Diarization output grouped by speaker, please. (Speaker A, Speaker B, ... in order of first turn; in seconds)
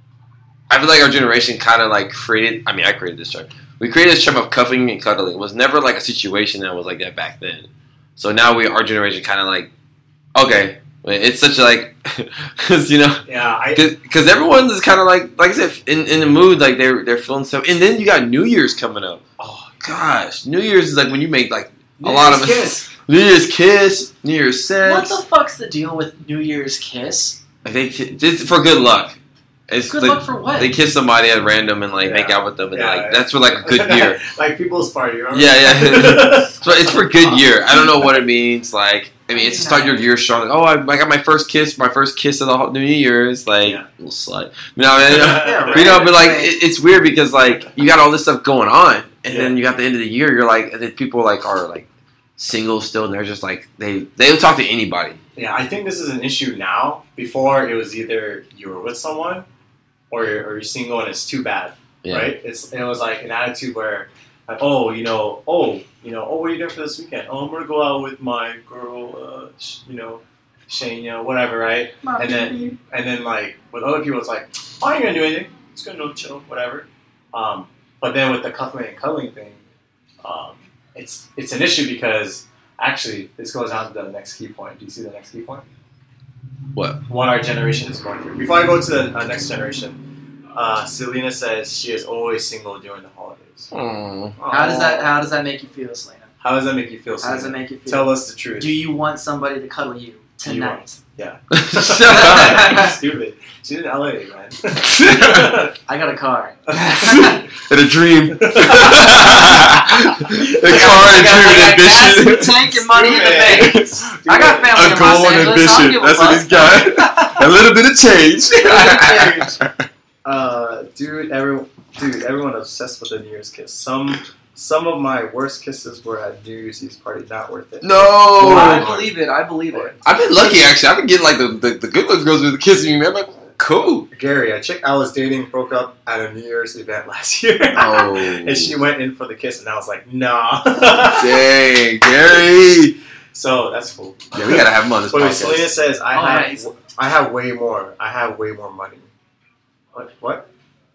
Speaker A: 0.7-9.7, 10.3-19.2, 19.8-25.2, 27.6-29.2, 29.7-34.2, 35.3-55.2, 62.0-62.3, 86.8-87.0, 93.7-94.4, 101.5-102.8, 104.8-105.6, 106.7-112.8, 113.5-114.1, 114.7-119.8, 127.8-129.1, 130.0-134.1, 137.7-138.8, 141.1-143.0, 144.3-145.7
Speaker B: 13.3-13.9, 19.4-19.8, 22.0-22.9, 32.0-38.2, 45.1-46.2, 49.3-49.6, 55.4-59.5, 60.1-79.6, 80.2-85.6, 87.1-90.0, 90.5-93.7, 94.4-95.2, 96.4-98.8, 100.4-105.7, 106.7-107.4, 108.4-109.6, 110.7-111.0, 112.9-114.9, 118.7-119.3, 120.2-129.0, 134.1-141.4, 143.3-149.1, 149.9-150.5
Speaker C: 24.8-27.4, 29.9-30.8, 39.3-40.1, 45.4-46.6, 72.0-72.8, 94.5-96.3, 97.2-101.0, 102.1-103.0, 105.9-107.4, 110.6-117.3, 118.7-119.5, 128.4-130.5, 146.1-146.7